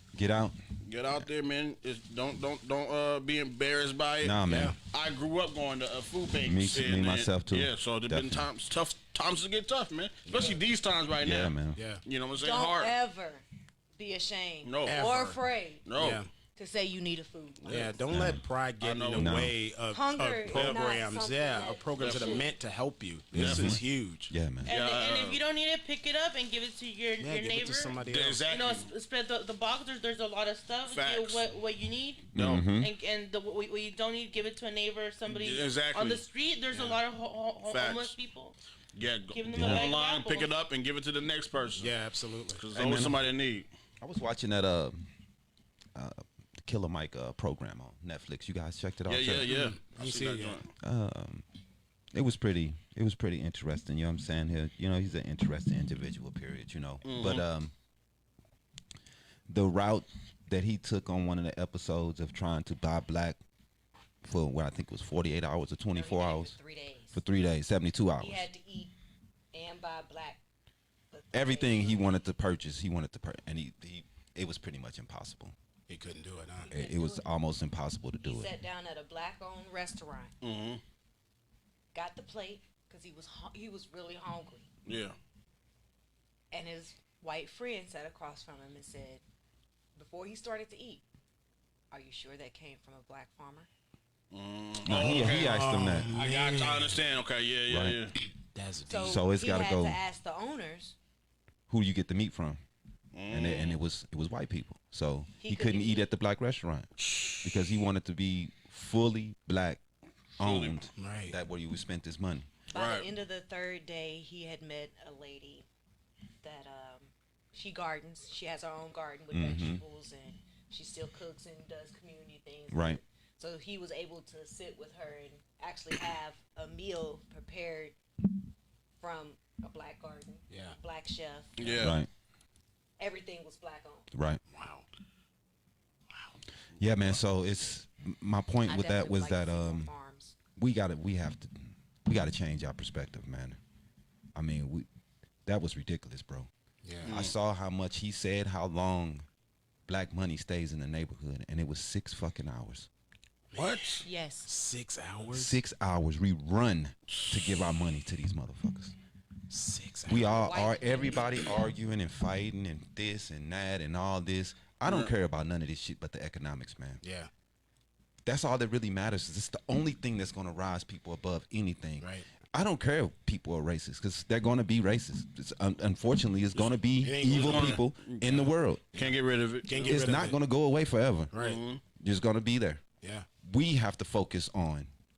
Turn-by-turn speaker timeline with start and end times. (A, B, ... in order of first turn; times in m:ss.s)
0:00.1-0:00.6 A
0:00.8-0:13.0 B
0:04.2-0:04.8 A
0:04.5-0:04.8 C
0:06.4-0:08.5 A
0:10.3-0:10.6 C
0:11.2-0:11.8 A
0:11.8-0:12.0 C
0:12.4-0:13.4 D
0:14.0-0:15.9 D
0:14.6-0:15.1 B
0:14.8-0:15.4 C
0:15.8-0:16.2 B
0:16.0-0:16.3 C
0:16.6-0:18.1 D
0:17.7-0:24.3 C
0:18.1-0:18.4 A
0:18.8-0:19.4 B
0:19.2-0:19.6 A
0:19.9-0:22.5 D
0:22.0-0:22.5 B
0:23.3-0:24.7 A
0:23.3-0:23.8 B
0:24.6-0:38.6 E
0:24.6-0:25.4 B
0:27.2-0:28.5 C
0:28.0-0:28.9 B
0:30.9-0:31.4 B
0:32.3-0:32.7 B
0:32.3-0:32.9 A
0:35.3-0:37.0 B
0:36.7-0:37.0 C
0:37.7-0:38.2 B
0:38.9-0:41.9 B
0:39.3-0:40.5 E
0:39.5-0:39.9 A
0:41.8-0:42.6 C
0:42.6-0:43.7 B
0:42.7-0:43.2 A
0:44.0-0:45.0 A
0:46.0-0:49.5 A
0:49.1-0:50.7 B
0:49.5-0:50.6 C
0:50.8-0:51.4 A
0:52.1-0:57.7 A
0:57.0-0:57.4 B
0:59.5-1:03.4 A
1:04.2-1:06.6 A
1:05.9-1:07.2 D
1:07.1-1:08.5 A
1:08.2-1:08.9 D
1:09.5-1:10.4 D
1:11.1-1:12.2 D
1:11.3-1:15.5 A
1:15.9-1:16.7 C
1:16.7-1:17.3 D
1:16.7-1:18.5 A
1:18.2-1:20.4 D
1:20.4-1:20.8 B
1:21.9-1:24.7 D
1:24.9-1:25.2 B
1:26.5-1:29.2 D
1:30.0-1:31.0 D
1:31.9-1:33.7 D
1:34.3-1:38.2 B
1:34.8-1:36.2 A
1:35.2-1:37.0 C
1:37.7-1:38.0 A
1:38.3-1:39.2 C
1:38.9-1:41.0 D
1:39.0-1:40.0 A
1:41.7-1:42.6 A
1:43.1-1:43.8 B
1:43.3-1:46.9 A
1:45.4-1:46.1 D
1:47.0-1:47.7 B
1:47.4-1:49.8 A
1:50.4-1:50.9 B
1:50.4-1:52.5 A
1:51.0-1:51.4 C
1:52.7-1:55.7 D
1:52.7-1:53.1 B
1:56.4-2:08.0 D
1:59.3-1:59.8 A
2:02.7-2:03.0 A
2:09.0-2:11.8 D
2:10.5-2:10.8 C
2:11.6-2:12.0 B
2:11.7-2:12.1 A
2:13.0-2:14.1 D
2:14.1-2:14.4 A
2:14.5-2:14.9 C
2:16.1-2:16.4 C
2:16.8-2:19.9 A
2:18.6-2:20.4 D
2:20.6-2:23.6 A
2:24.4-2:24.9 A
2:25.5-2:26.5 A
2:26.8-2:27.1 C
2:27.0-2:27.3 B
2:27.1-2:29.2 A
2:29.9-2:32.9 A
2:33.5-2:35.6 C
2:33.6-2:34.0 B
2:34.0-2:34.5 D
2:35.3-2:39.0 A
2:39.5-2:40.4 C
2:40.1-2:47.0 A
2:40.4-2:41.6 D
2:44.9-2:45.1 B
2:47.0-2:47.3 C
2:48.2-2:58.9 A
2:52.0-2:52.3 C
2:57.0-2:57.8 C
2:57.2-3:00.1 B
2:58.9-3:00.4 C
2:59.9-3:01.3 A
3:01.3-3:01.6 C
3:01.4-3:01.8 B
3:02.0-3:02.8 A
3:03.0-3:03.3 C
3:03.4-3:04.9 A